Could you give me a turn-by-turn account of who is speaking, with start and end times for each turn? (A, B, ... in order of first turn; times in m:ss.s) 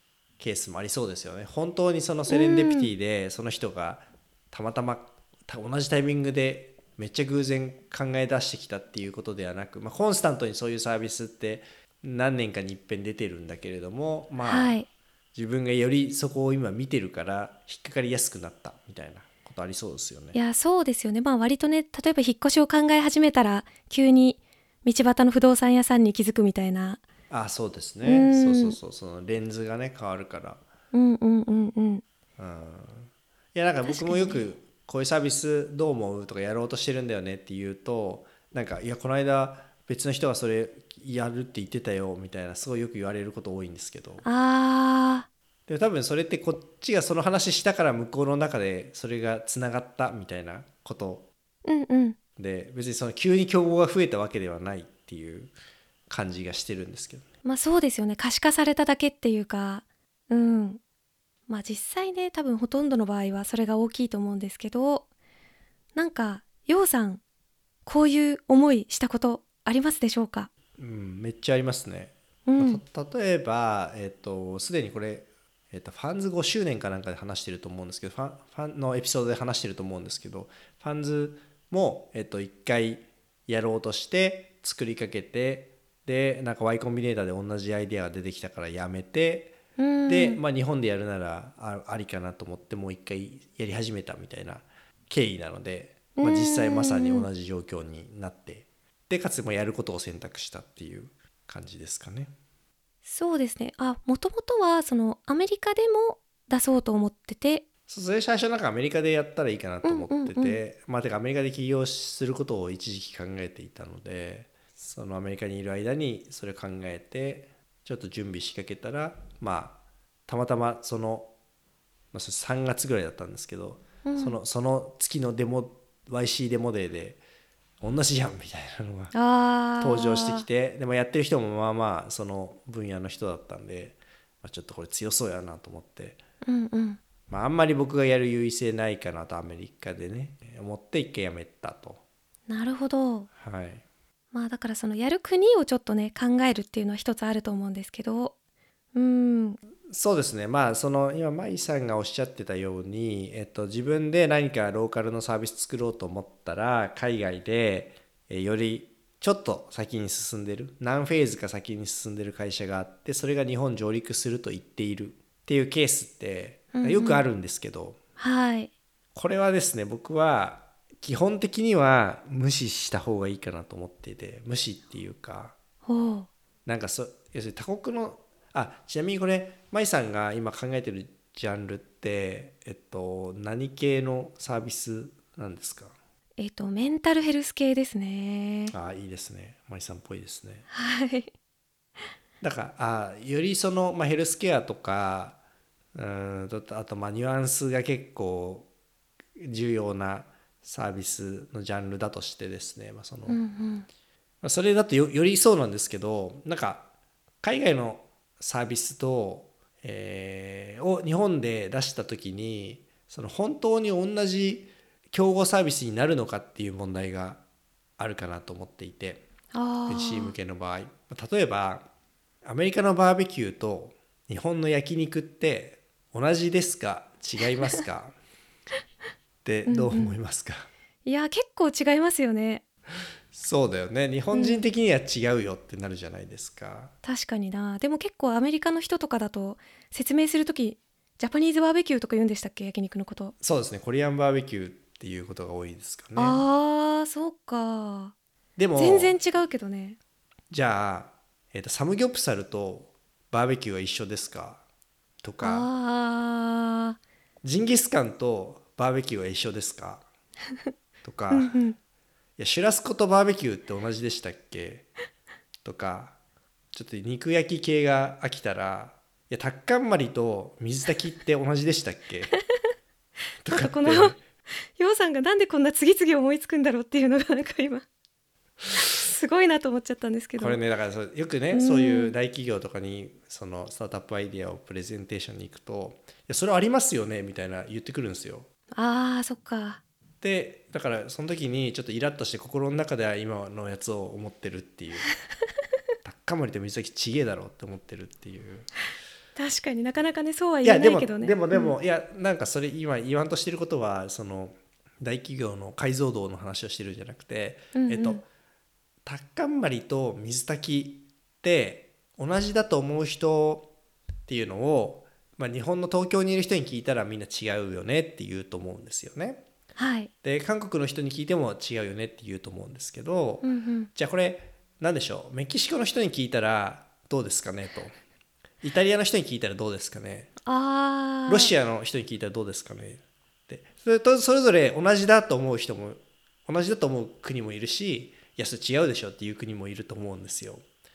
0:00.4-0:14.8 A
0:02.3-0:02.9 B
0:14.4-0:14.9 B
0:15.3-0:20.4 A
0:20.3-0:27.0 B
0:27.3-0:30.6 A
0:28.0-0:28.8 B
0:30.9-0:32.0 B
0:32.4-0:44.2 A
0:33.8-0:34.5 B
0:44.2-0:45.3 B
0:45.7-0:51.3 A
0:51.6-0:52.2 B
0:52.4-0:55.5 A
0:56.1-0:57.2 A
0:57.4-1:00.8 B
1:01.5-1:05.1 B
1:06.0-1:07.2 B
1:07.8-1:10.5 B
1:10.8-1:42.3 A
1:12.5-1:12.8 B
1:29.8-1:30.4 B
1:36.2-1:37.3 B
1:43.0-1:47.6 B
1:47.9-2:01.3 A
1:49.8-1:50.6 B
2:02.1-2:07.2 A
2:04.0-2:04.4 B
2:07.8-2:09.1 A
2:09.1-2:10.5 B
2:09.8-2:16.2 A
2:16.4-2:17.0 B
2:17.3-2:22.0 A
2:22.5-2:23.3 B
2:23.4-2:23.8 A
2:24.3-2:28.3 B
2:28.9-2:29.6 B
2:29.9-2:48.0 A
2:46.7-2:47.3 B
2:48.2-2:48.7 B
2:49.2-2:55.6 A
2:55.8-2:56.3 B
2:56.6-3:06.0 A
3:06.4-3:08.7 B
3:08.7-3:10.7 A
3:10.7-3:11.3 B
3:12.4-3:15.4 A
3:16.0-3:18.7 A
3:19.4-3:23.4 A
3:23.3-3:23.9 B
3:24.4-3:26.9 A
3:27.4-3:37.4 A
3:38.0-3:39.2 A
3:39.5-3:40.3 B
3:39.9-3:41.9 A
3:42.4-3:48.2 A
3:49.4-3:50.7 A
3:49.7-3:50.2 B
3:51.0-3:52.6 B
3:53.3-3:56.9 A
3:54.3-3:54.7 B
3:57.0-4:03.3 B
4:03.4-4:06.4 A
4:06.2-4:08.2 B
4:08.6-4:09.2 A
4:08.8-4:10.0 B
4:10.5-4:14.6 A
4:15.2-4:15.7 A
4:15.4-4:17.0 B
4:17.4-4:20.1 A
4:21.0-4:21.6 A
4:21.3-4:21.8 B
4:22.4-4:24.9 A
4:25.6-4:26.2 A
4:26.7-4:32.4 A
4:33.4-4:34.2 A
4:33.5-4:34.2 B
4:34.8-4:37.8 B
4:38.7-4:40.6 B
4:40.4-4:48.5 A
4:41.5-4:42.1 B
4:48.8-4:49.8 B
4:50.2-4:55.1 A
4:56.0-4:58.7 A
4:59.4-5:01.8 B
5:00.6-5:08.2 A
5:07.8-5:08.2 B
5:09.0-5:13.7 A
5:14.3-5:19.4 A
5:19.8-5:20.1 B
5:20.2-5:27.9 A
5:23.4-5:23.9 B
5:28.6-5:30.3 A
5:30.4-5:31.5 B
5:31.3-5:40.6 A